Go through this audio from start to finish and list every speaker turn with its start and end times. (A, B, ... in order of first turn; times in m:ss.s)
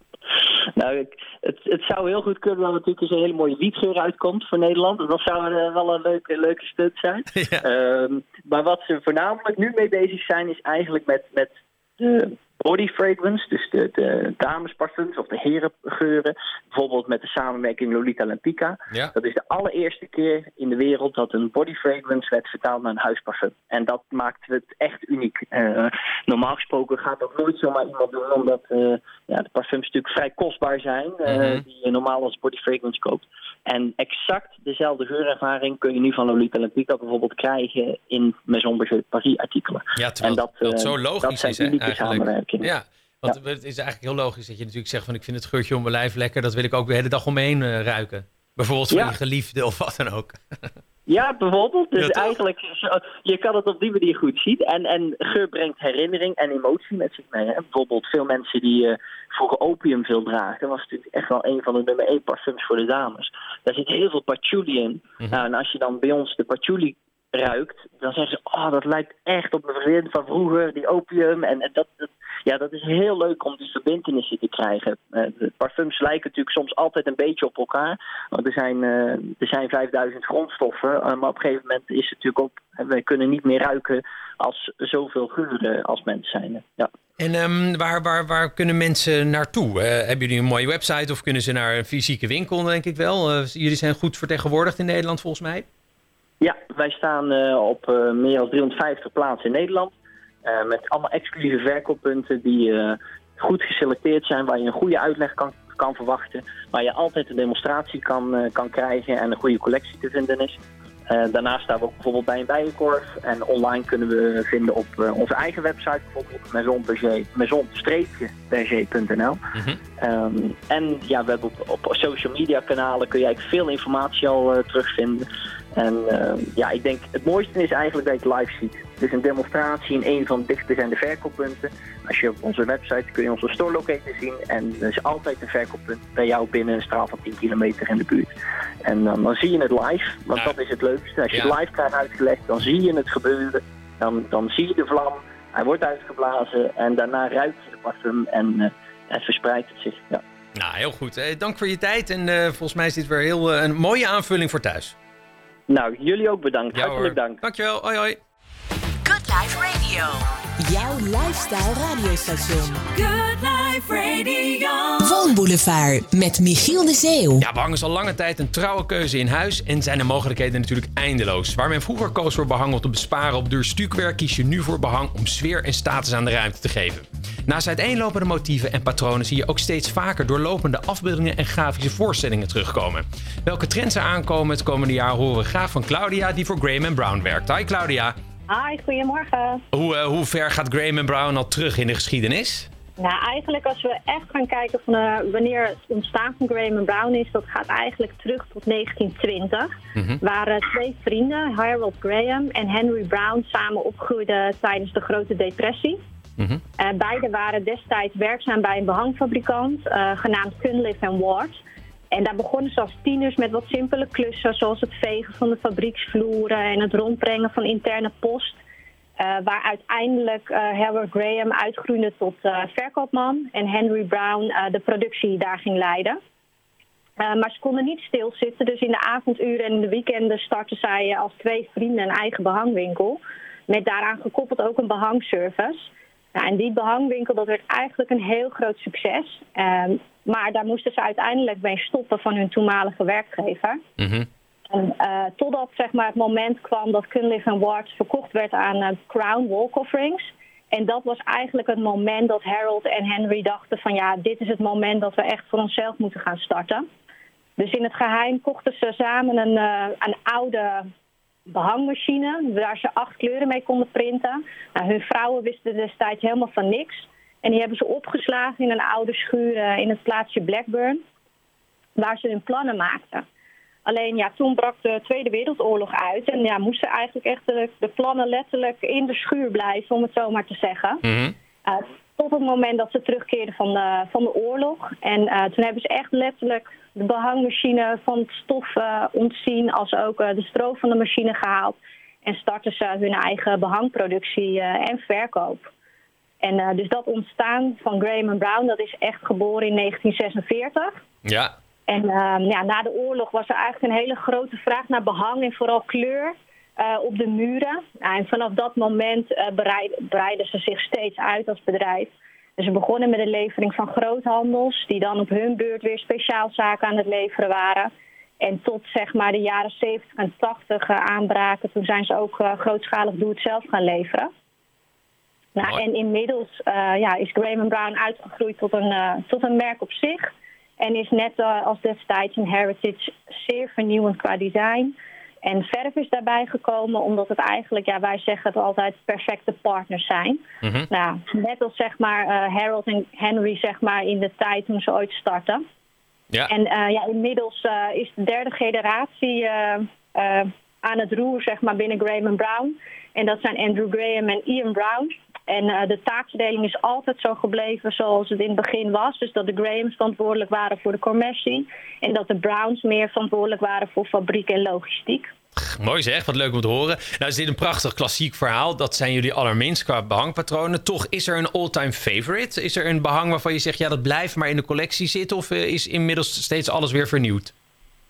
0:00.8-0:42.7 A
0:07.3-0:07.6 B
0:31.3-0:31.6 B
0:40.0-0:50.7 B
0:51.1-1:26.9 A
0:52.0-0:52.3 B
1:27.2-1:35.6 B
1:36.4-1:59.4 A
2:00.0-2:18.3 A
2:18.8-2:30.2 A
2:30.6-2:34.9 B
2:35.7-2:37.4 A
2:36.7-2:38.2 B
2:39.0-2:42.8 C
2:42.9-2:45.3 D
2:45.0-2:47.4 C
2:47.4-3:08.2 B
3:08.5-3:09.6 E
3:09.7-3:12.7 B
3:13.0-3:26.0 E
3:19.9-3:20.2 B
3:26.8-3:38.6 E
3:39.2-3:46.2 E
3:47.2-4:03.8 E
4:04.0-4:04.3 B
4:04.7-4:16.8 E
4:17.6-4:20.9 E
4:21.5-4:31.0 E
4:32.0-4:33.2 E
4:33.8-4:41.0 E
4:41.0-4:41.3 B
4:41.6-4:55.7 E
4:56.4-5:01.0 E
5:01.2-5:01.5 B
5:01.9-5:24.3 E
5:25.6-5:45.6 E
5:40.6-5:40.9 B
5:46.5-6:05.3 E
6:05.6-6:17.5 B